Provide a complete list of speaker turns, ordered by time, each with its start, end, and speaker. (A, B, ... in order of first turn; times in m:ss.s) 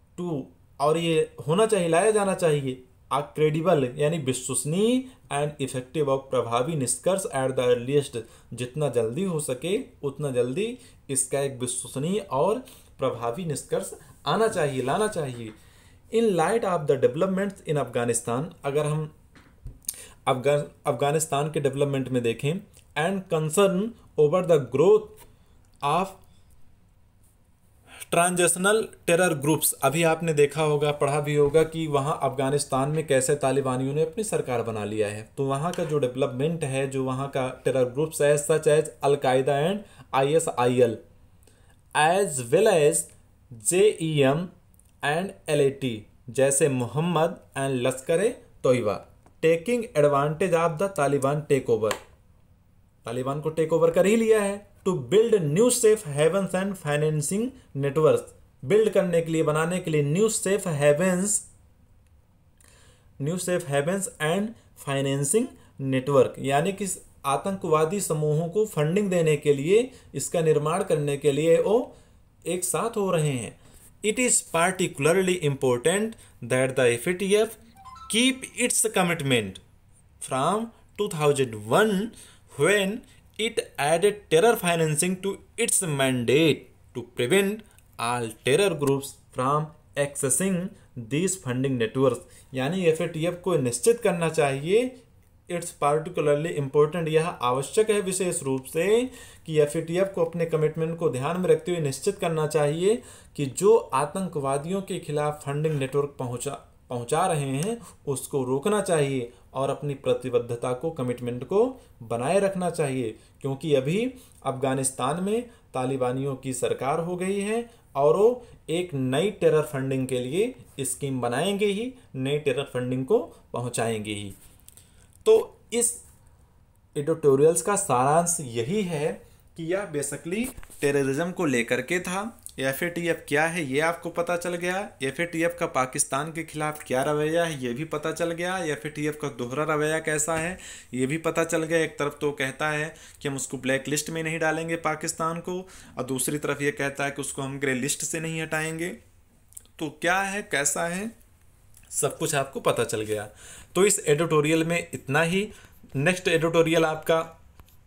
0:00.2-0:15.5 A
0:16.1-0:19.1 A
0:20.2-0:25.2 A
0:25.8-0:26.2 A
0:28.1-0:41.0 A
0:41.9-0:44.5 A
0:45.0-0:52.0 A
0:53.0-1:01.5 A
1:03.2-1:11.9 A
1:12.4-1:17.5 A
1:18.1-1:19.6 A
1:20.2-2:04.4 A
2:05.2-2:06.0 A
2:06.9-2:29.0 A
2:29.8-2:31.1 A
2:31.9-2:37.3 A